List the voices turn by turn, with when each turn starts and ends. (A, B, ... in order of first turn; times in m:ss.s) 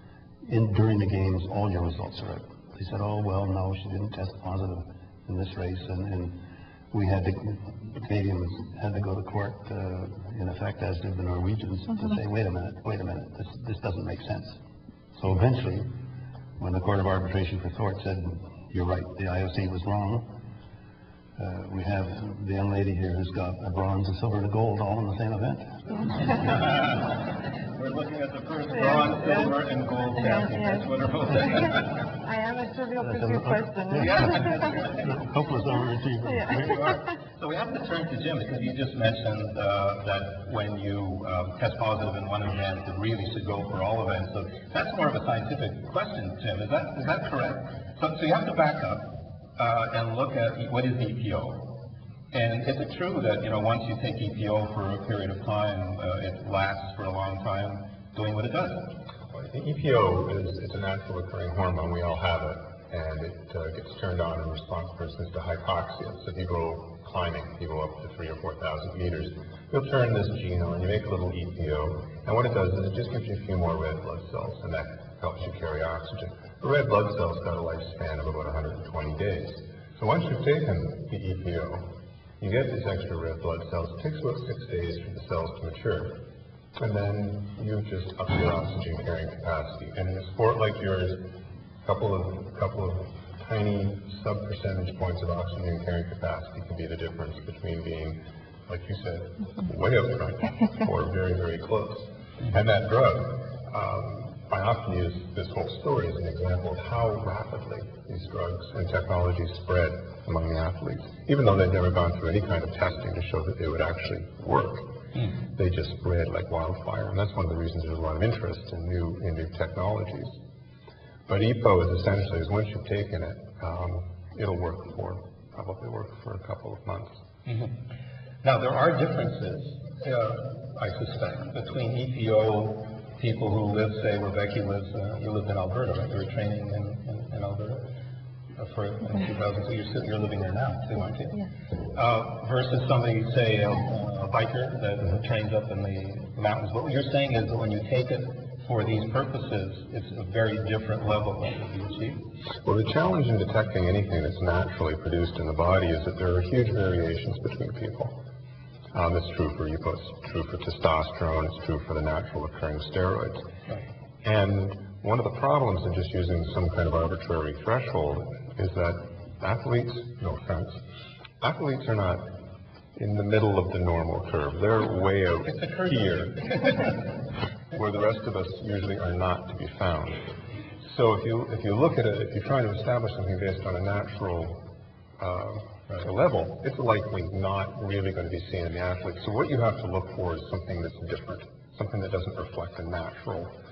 0:00.4-0:06.4 A
0:06.9-0:14.6 A
0:11.9-0:12.2 B
0:15.2-0:15.9 A
0:16.6-0:20.3 A
0:21.4-0:25.8 A
0:26.3-0:32.1 C
0:28.7-0:29.5 B
0:30.1-0:34.8 B
0:33.0-0:36.8 A
0:34.0-0:35.1 C
0:36.3-0:37.0 B
0:36.5-0:51.7 C
0:52.3-0:58.9 C
0:59.3-1:21.9 D
1:22.4-1:26.2 D
1:26.8-1:31.2 D
1:31.8-1:54.8 D
1:55.6-2:00.4 D
2:01.3-2:07.1 D
2:07.4-2:07.7 C
2:08.4-2:17.9 C
2:18.6-2:21.4 C
2:21.9-2:32.2 C
2:32.6-2:38.2 D
2:38.9-2:43.4 D
2:44.2-2:50.8 D
2:51.4-2:52.2 D
2:53.0-2:57.0 D
2:55.5-2:57.0 C
2:57.7-3:00.3 D
3:00.8-3:04.6 D
3:05.2-3:13.5 D